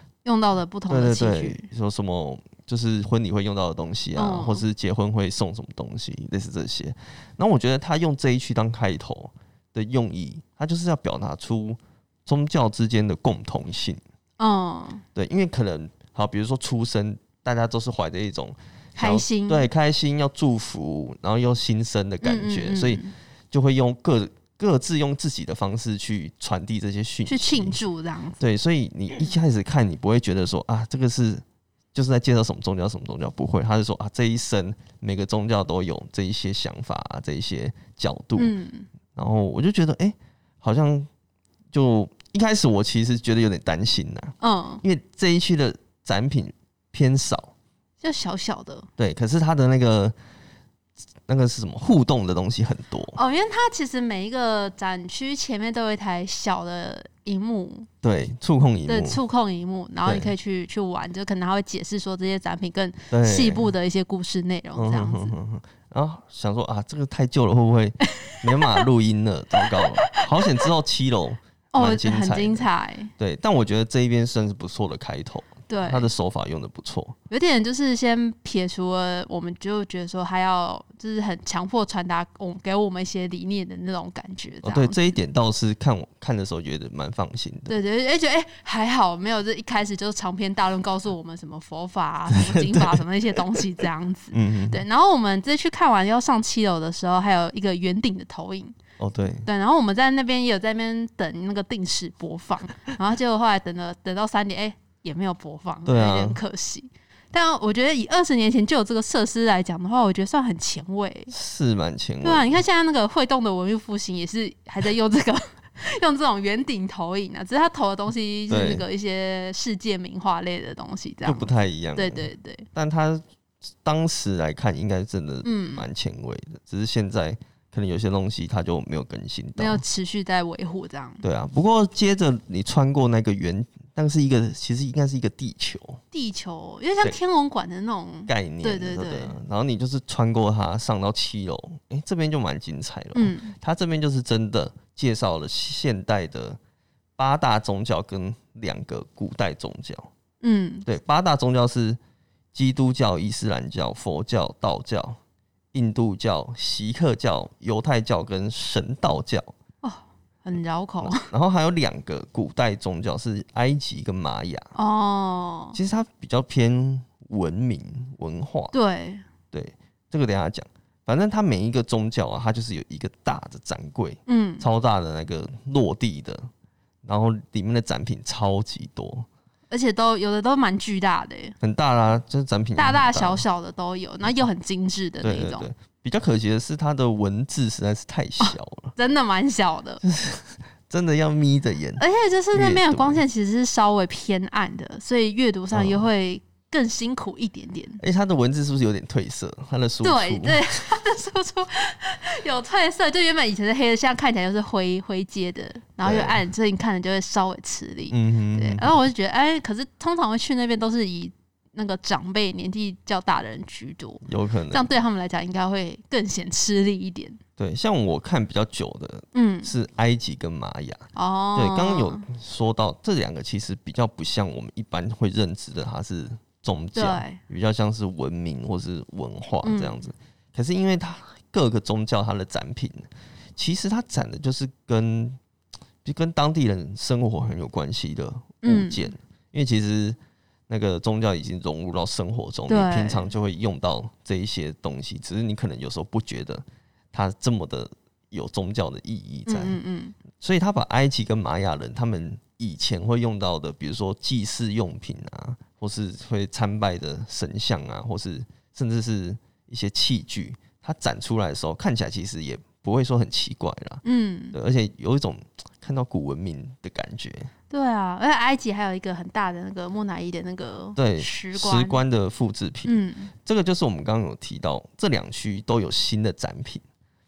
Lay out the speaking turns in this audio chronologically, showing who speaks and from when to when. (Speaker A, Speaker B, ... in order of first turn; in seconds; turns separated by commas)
Speaker A: 0.2-1.6, Speaker B: 0.9-14.0, Speaker A: 4.2-4.6, Speaker A: 14.4-15.0, Speaker B: 15.1-27.8, Speaker A: 19.0-19.7, Speaker A: 22.2-23.1, Speaker A: 27.2-28.4, Speaker B: 28.4-38.5, Speaker A: 38.4-38.9, Speaker B: 39.1-41.1, Speaker B: 41.7-47.5, Speaker A: 44.4-44.8, Speaker A: 48.0-48.9, Speaker B: 49.0-50.1, Speaker B: 51.3-53.2, Speaker A: 53.1-57.9, Speaker B: 58.0-59.2, Speaker A: 58.9-65.3, Speaker B: 60.0-60.3, Speaker B: 63.1-63.7, Speaker B: 64.7-77.1, Speaker A: 68.2-68.8, Speaker A: 69.6-70.7, Speaker A: 71.7-73.1, Speaker A: 75.7-76.1, Speaker A: 77.3-85.1, Speaker B: 84.6-87.7, Speaker A: 87.7-98.8, Speaker B: 92.3-93.6, Speaker B: 94.3-94.8, Speaker B: 99.0-99.5, Speaker A: 99.4-111.3, Speaker B: 105.8-106.4, Speaker B: 111.3-112.6, Speaker A: 112.2-122.7, Speaker B: 118.5-118.8, Speaker B: 121.2-123.2, Speaker B: 123.8-129.8, Speaker A: 125.4-125.8, Speaker A: 129.6-131.2, Speaker B: 131.2-136.0, Speaker A: 136.1-139.3, Speaker B: 138.3-146.6, Speaker A: 143.1-143.5, Speaker B: 147.2-150.1, Speaker A: 150.4-150.8, Speaker B: 150.8-152.0, Speaker B: 152.5-155.2, Speaker B: 155.7-159.5, Speaker A: 159.8-161.3, Speaker B: 161.0-164.7, Speaker A: 164.7-165.8, Speaker B: 165.7-168.7, Speaker A: 168.7-169.2, Speaker B: 169.5-176.5, Speaker A: 174.3-174.6, Speaker B: 177.0-179.3, Speaker A: 179.7-181.5, Speaker B: 181.6-183.4, Speaker A: 182.8-185.7, Speaker B: 185.2-188.9, Speaker A: 188.4-190.0, Speaker B: 190.0-193.2, Speaker A: 192.0-198.0, Speaker B: 195.7-196.1, Speaker B: 198.0-200.6, Speaker A: 200.0-217.4, Speaker B: 206.0-206.4, Speaker B: 208.1-209.0, Speaker B: 214.2-214.9, Speaker B: 217.6-235.4, Speaker A: 219.3-219.7, Speaker A: 221.1-222.2, Speaker A: 226.9-227.4, Speaker A: 229.6-230.1, Speaker B: 236.0-240.2, Speaker A: 238.6-239.1, Speaker B: 240.7-249.8, Speaker A: 242.7-243.3, Speaker A: 249.4-250.1, Speaker B: 250.4-264.0, Speaker A: 264.0-264.6, Speaker B: 264.5-267.5, Speaker A: 267.7-272.0, Speaker B: 270.9-276.8, Speaker A: 272.8-273.3